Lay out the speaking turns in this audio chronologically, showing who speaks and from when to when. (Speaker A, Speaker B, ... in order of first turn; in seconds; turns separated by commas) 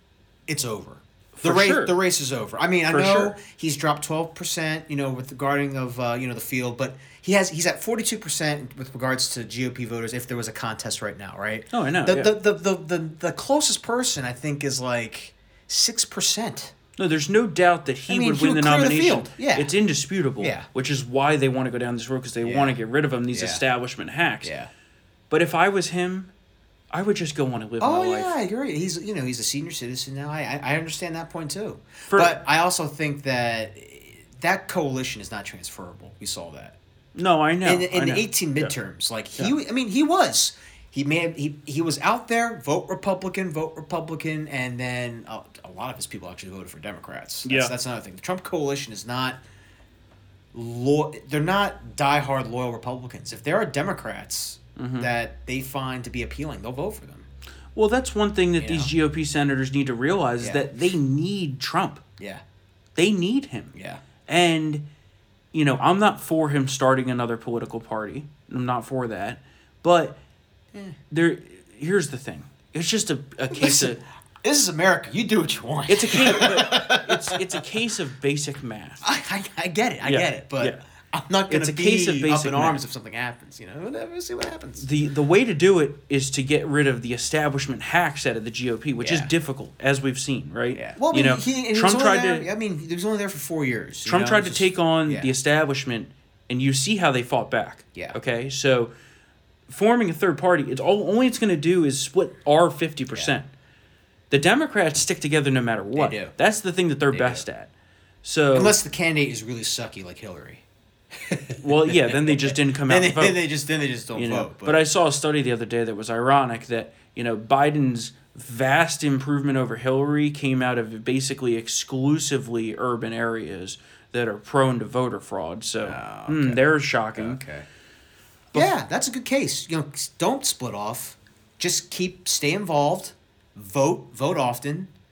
Speaker A: 0.5-16.7, Speaker B: 1.4-1.9, Speaker B: 2.9-3.4, Speaker B: 11.7-12.3, Speaker B: 17.0-24.5, Speaker A: 18.1-19.7, Speaker A: 20.4-20.7, Speaker A: 22.4-22.8, Speaker A: 23.3-23.6, Speaker A: 24.4-24.7, Speaker B: 25.3-26.3, Speaker B: 26.9-28.3, Speaker A: 27.8-36.8, Speaker B: 32.1-32.4, Speaker B: 37.1-38.7, Speaker A: 37.6-49.4, Speaker B: 47.4-47.7, Speaker A: 50.5-57.3, Speaker B: 54.8-55.1, Speaker B: 57.7-62.0, Speaker A: 58.6-58.9, Speaker A: 60.4-60.7, Speaker A: 62.2-62.4, Speaker B: 63.0-63.7, Speaker A: 63.7-64.0, Speaker B: 64.3-64.8, Speaker B: 65.5-70.2, Speaker B: 71.1-74.0, Speaker A: 73.5-77.6, Speaker B: 75.9-79.0, Speaker A: 79.0-84.8, Speaker B: 80.0-80.8, Speaker B: 81.5-82.8, Speaker B: 84.8-92.5, Speaker A: 89.0-89.3, Speaker A: 90.7-95.3, Speaker B: 94.0-98.9, Speaker B: 99.7-103.5, Speaker B: 104.3-107.7, Speaker A: 105.9-106.3, Speaker A: 107.1-107.4, Speaker B: 108.2-108.8, Speaker A: 108.5-114.8, Speaker B: 111.6-113.4, Speaker B: 114.1-127.4, Speaker A: 125.8-127.7, Speaker A: 128.5-134.9